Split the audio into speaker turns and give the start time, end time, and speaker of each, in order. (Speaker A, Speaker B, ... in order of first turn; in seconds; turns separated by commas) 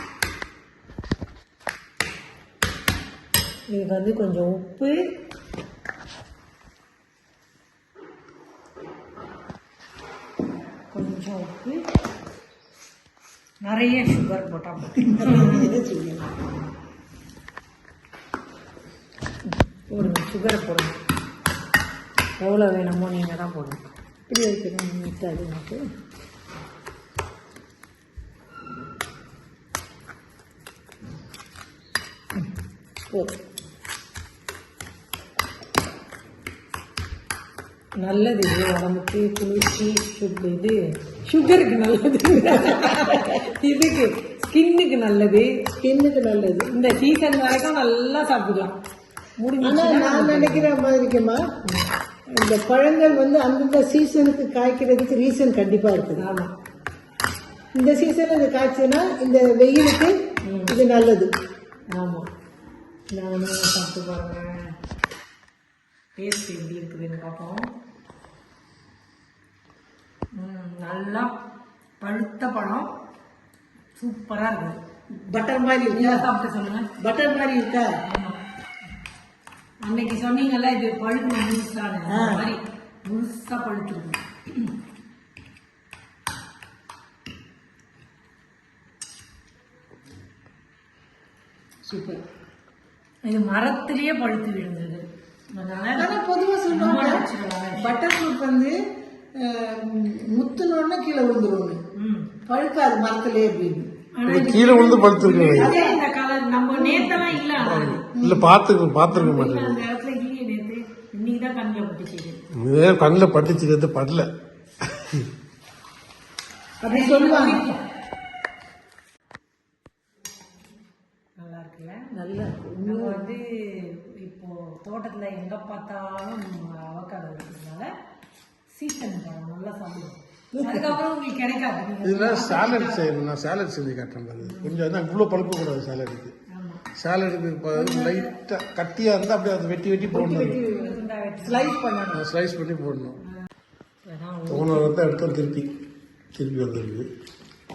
Speaker A: 3.7-5.0, Speaker A: 10.9-11.8, Speaker A: 13.6-15.7, Speaker B: 15.1-16.2, Speaker A: 19.9-21.0, Speaker A: 22.4-23.8, Speaker B: 24.3-25.8, Speaker A: 38.0-45.5, Speaker B: 42.7-43.0, Speaker B: 45.8-46.7, Speaker A: 46.7-48.8, Speaker A: 49.4-50.7, Speaker B: 49.6-51.5, Speaker B: 52.3-56.2, Speaker A: 56.1-56.5, Speaker B: 57.7-60.1, Speaker A: 60.5-60.8, Speaker B: 60.7-61.3, Speaker A: 61.9-62.3, Speaker A: 63.1-64.7, Speaker A: 66.2-67.7, Speaker A: 70.3-71.3, Speaker A: 72.0-72.9, Speaker A: 74.0-74.8, Speaker B: 75.3-76.2, Speaker A: 75.9-76.9, Speaker B: 77.0-77.9, Speaker A: 78.0-78.4, Speaker A: 79.8-84.7, Speaker B: 82.1-82.5, Speaker B: 91.8-92.2, Speaker A: 93.2-96.2, Speaker B: 95.9-97.2, Speaker A: 96.7-97.9, Speaker B: 97.8-98.8, Speaker B: 99.3-101.8, Speaker A: 102.0-102.3, Speaker B: 102.5-103.9, Speaker A: 104.1-108.1, Speaker C: 104.2-105.8, Speaker B: 105.5-106.0, Speaker B: 106.7-107.3, Speaker C: 107.5-109.8, Speaker B: 108.2-108.5, Speaker A: 109.1-112.4, Speaker C: 112.5-114.3, Speaker C: 114.8-115.3, Speaker B: 116.8-117.6, Speaker A: 116.9-117.8, Speaker A: 121.4-122.1, Speaker B: 122.1-123.2, Speaker A: 122.8-127.9, Speaker A: 128.7-133.1, Speaker B: 130.5-130.9, Speaker C: 132.0-136.3, Speaker A: 134.4-134.8, Speaker A: 136.5-136.8, Speaker C: 136.9-140.6, Speaker A: 137.7-138.2, Speaker B: 140.1-142.2, Speaker A: 140.4-141.8, Speaker C: 142.1-143.2, Speaker A: 144.0-144.9, Speaker C: 144.5-145.7, Speaker C: 146.3-147.1